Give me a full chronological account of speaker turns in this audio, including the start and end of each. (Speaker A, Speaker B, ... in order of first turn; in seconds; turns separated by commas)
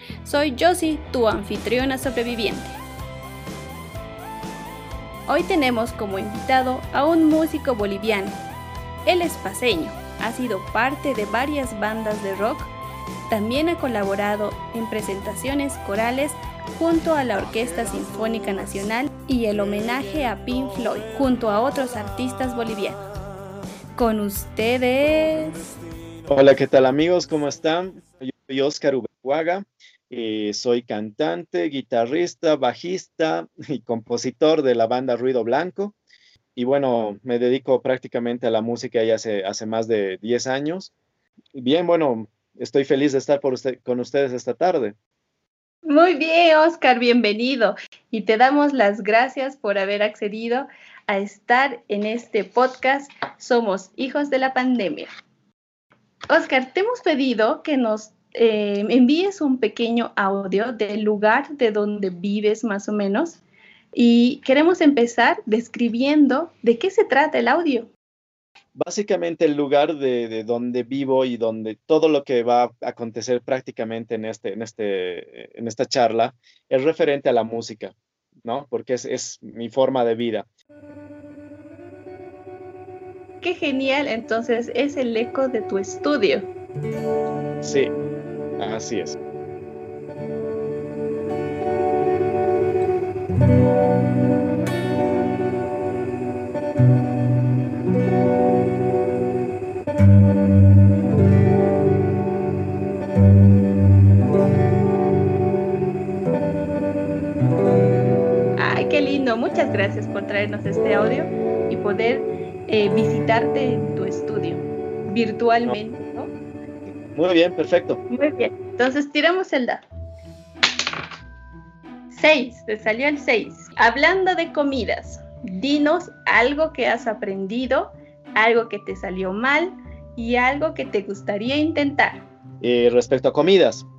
Speaker A: 0.2-2.8, Speaker A: 5.3-8.4, Speaker A: 9.1-12.7, Speaker A: 13.3-23.1, Speaker A: 24.0-25.6, Speaker B: 26.3-36.0, Speaker B: 36.6-40.9, Speaker B: 41.5-45.0, Speaker A: 45.9-55.1, Speaker A: 56.3-63.4, Speaker A: 63.9-67.9, Speaker B: 68.8-80.5, Speaker A: 83.4-86.5, Speaker B: 87.6-87.9, Speaker B: 88.6-89.2, Speaker A: 108.6-116.3, Speaker B: 117.1-118.0, Speaker A: 118.1-119.8, Speaker A: 122.1-132.2, Speaker B: 132.6-133.9